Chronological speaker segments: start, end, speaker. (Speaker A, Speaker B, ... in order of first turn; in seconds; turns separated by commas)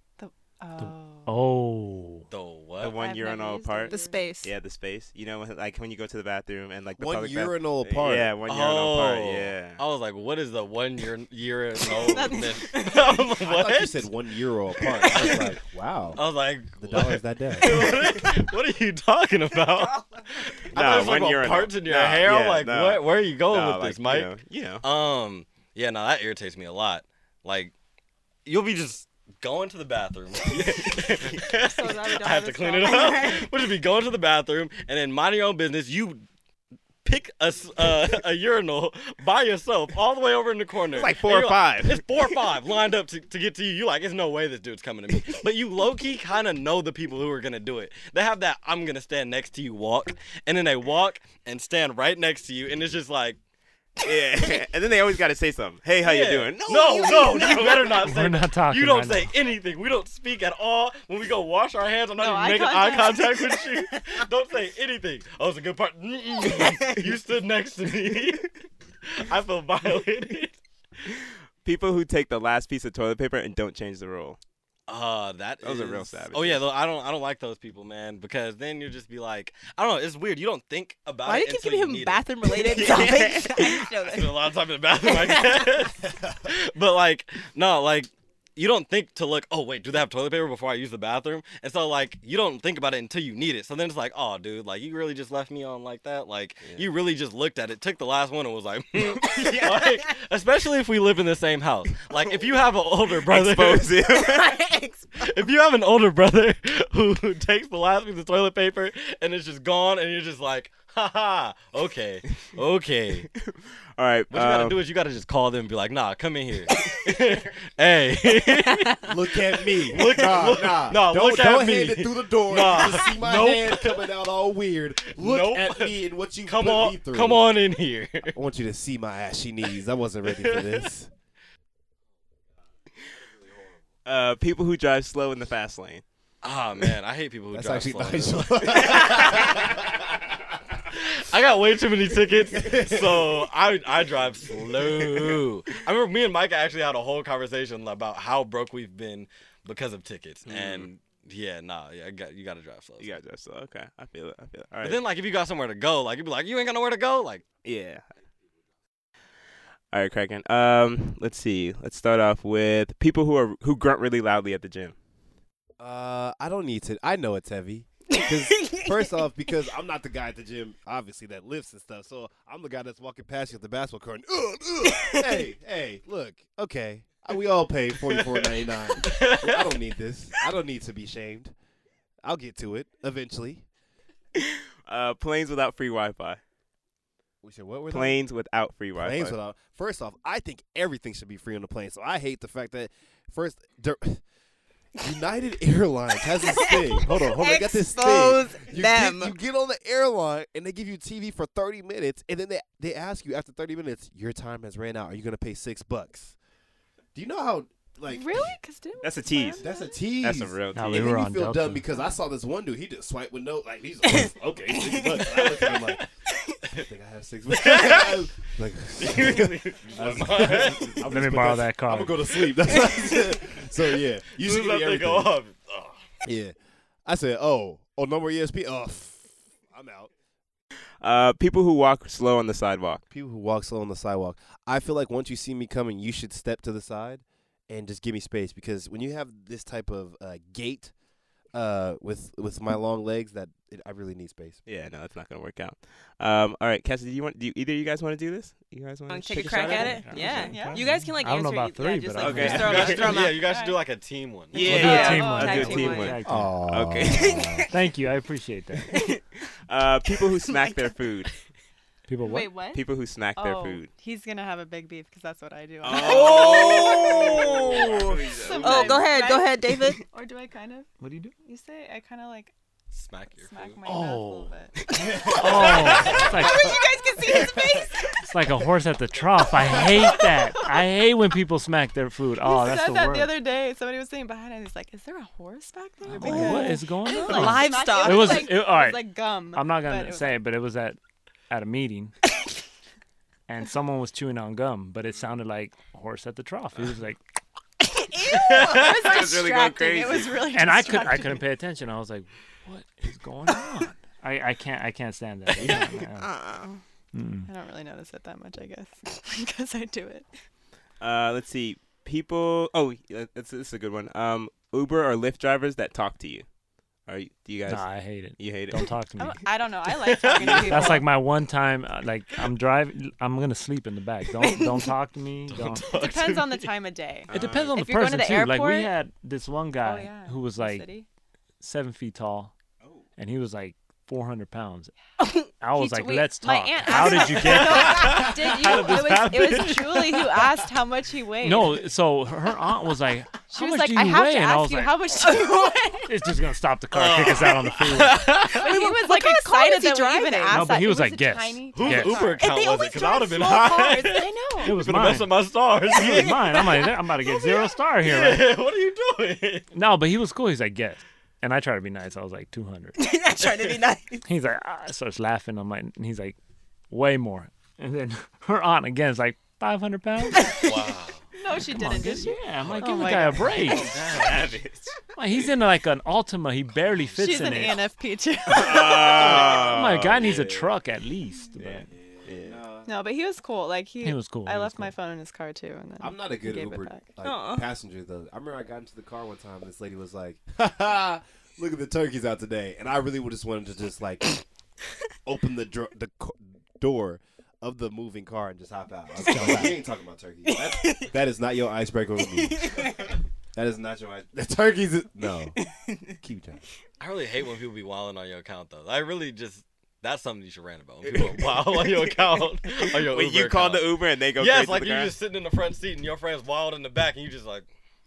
Speaker A: 0.2-1.3, Speaker B: 0.8-2.3, Speaker C: 2.3-3.0, Speaker D: 2.8-9.8, Speaker A: 2.9-4.3, Speaker E: 3.9-4.5, Speaker F: 7.0-8.3, Speaker C: 8.4-14.1, Speaker E: 11.9-13.2, Speaker F: 13.4-16.2, Speaker C: 14.9-15.5, Speaker C: 16.1-24.3, Speaker F: 16.8-18.3, Speaker D: 20.7-24.8, Speaker C: 24.8-27.7, Speaker C: 28.4-36.2, Speaker A: 31.4-33.5, Speaker E: 32.8-33.4, Speaker C: 37.0-53.4, Speaker D: 40.9-42.0, Speaker D: 54.0-58.0, Speaker C: 56.0-68.5, Speaker B: 58.0-59.3, Speaker A: 62.2-63.6, Speaker E: 66.6-67.0, Speaker C: 69.0-70.6, Speaker D: 71.6-74.4, Speaker C: 74.9-83.0, Speaker D: 75.6-76.6, Speaker E: 81.2-85.9, Speaker D: 82.8-83.8, Speaker C: 84.0-104.2, Speaker D: 99.3-99.7, Speaker D: 103.2-104.6, Speaker E: 104.3-104.8, Speaker C: 105.2-113.3, Speaker D: 113.4-114.8, Speaker C: 114.3-119.1, Speaker F: 119.0-127.5, Speaker C: 119.7-124.1, Speaker C: 125.0-128.4, Speaker F: 128.3-131.1, Speaker C: 130.3-130.8, Speaker D: 134.0-136.0, Speaker C: 136.4-139.7, Speaker F: 137.5-140.0, Speaker C: 140.9-153.1, Speaker F: 142.5-143.5, Speaker D: 150.5-150.9, Speaker D: 153.0-155.0, Speaker C: 154.8-157.4, Speaker D: 157.6-158.0, Speaker D: 159.9-164.9, Speaker F: 165.8-181.5, Speaker E: 168.1-168.9, Speaker E: 174.9-175.2, Speaker C: 178.0-179.7, Speaker F: 182.2-183.6, Speaker D: 184.4-186.4, Speaker F: 187.4-188.2, Speaker D: 187.9-189.3, Speaker F: 188.9-194.2, Speaker F: 195.0-206.3, Speaker E: 196.6-199.3, Speaker F: 207.1-208.5, Speaker A: 208.1-210.0, Speaker D: 209.0-209.6, Speaker F: 209.6-216.1, Speaker D: 210.2-211.1, Speaker B: 210.7-211.8, Speaker C: 215.3-215.9, Speaker F: 216.8-225.3, Speaker C: 217.5-218.2, Speaker C: 219.0-221.1, Speaker B: 221.1-222.2, Speaker C: 224.3-226.0, Speaker F: 226.2-226.5, Speaker F: 227.1-230.1, Speaker D: 231.0-233.0, Speaker F: 233.1-240.9, Speaker F: 241.5-244.6, Speaker D: 244.7-250.6, Speaker E: 249.1-253.5, Speaker A: 249.3-250.9, Speaker B: 249.8-253.0, Speaker D: 252.2-253.0, Speaker C: 252.5-254.5, Speaker A: 252.7-253.8, Speaker D: 254.5-257.5, Speaker A: 254.6-256.1, Speaker B: 254.6-256.6, Speaker E: 254.6-256.1, Speaker F: 256.2-257.7, Speaker E: 257.3-257.7, Speaker B: 257.7-258.9, Speaker E: 258.9-259.2, Speaker D: 259.7-261.3, Speaker E: 260.4-260.8, Speaker B: 262.1-262.5, Speaker A: 262.2-262.8, Speaker D: 262.7-263.9, Speaker A: 263.4-272.5, Speaker D: 265.8-269.1, Speaker E: 265.9-270.0, Speaker B: 271.0-271.3, Speaker C: 272.9-273.8, Speaker A: 273.4-276.7, Speaker F: 275.0-275.4, Speaker E: 275.0-278.2, Speaker B: 275.2-276.8, Speaker C: 275.8-276.4, Speaker F: 276.0-276.7, Speaker B: 278.2-283.3, Speaker A: 279.7-280.9, Speaker A: 282.4-290.3, Speaker B: 286.1-291.0, Speaker E: 286.2-288.5, Speaker B: 291.5-292.1, Speaker B: 293.5-297.2, Speaker A: 298.2-301.4, Speaker C: 298.3-299.2, Speaker E: 298.3-298.9, Speaker D: 298.7-301.0, Speaker B: 300.5-306.3, Speaker E: 305.6-306.8, Speaker B: 307.1-307.5, Speaker A: 307.5-310.2, Speaker D: 311.0-316.4, Speaker D: 317.1-319.0, Speaker B: 317.7-319.4, Speaker A: 319.2-321.1, Speaker C: 320.0-321.0, Speaker B: 320.6-326.0, Speaker C: 325.5-326.7, Speaker A: 325.9-328.9, Speaker D: 327.3-327.8, Speaker B: 327.3-330.9, Speaker A: 329.8-331.1, Speaker B: 331.6-332.5, Speaker B: 333.2-334.9, Speaker E: 335.2-335.5, Speaker B: 335.6-339.5, Speaker A: 335.7-341.8, Speaker C: 337.0-340.5, Speaker B: 341.4-345.5, Speaker A: 343.5-346.1, Speaker B: 346.1-348.4, Speaker C: 346.9-348.8, Speaker A: 348.5-352.6, Speaker E: 348.6-350.8, Speaker B: 350.5-352.3, Speaker C: 351.7-359.7, Speaker E: 352.4-354.3, Speaker A: 353.7-354.8, Speaker B: 354.6-355.3, Speaker B: 355.9-358.5, Speaker B: 359.7-363.0, Speaker E: 362.9-364.2, Speaker B: 364.2-366.4, Speaker B: 366.9-370.6, Speaker E: 370.3-370.6, Speaker C: 370.6-371.2, Speaker A: 371.4-373.7, Speaker B: 371.5-373.9, Speaker C: 372.6-374.6, Speaker D: 373.6-375.0, Speaker B: 375.1-377.9, Speaker A: 377.2-379.6, Speaker D: 378.5-380.7, Speaker C: 379.1-379.7, Speaker B: 379.6-381.9, Speaker D: 381.6-382.6, Speaker F: 381.9-382.9, Speaker A: 382.8-387.0, Speaker B: 384.0-384.9, Speaker F: 386.0-394.4, Speaker E: 387.2-387.7, Speaker F: 395.2-405.6, Speaker B: 399.3-399.7, Speaker E: 400.5-401.1, Speaker E: 402.5-403.1, Speaker F: 406.2-406.6, Speaker C: 407.0-417.7, Speaker D: 411.0-415.1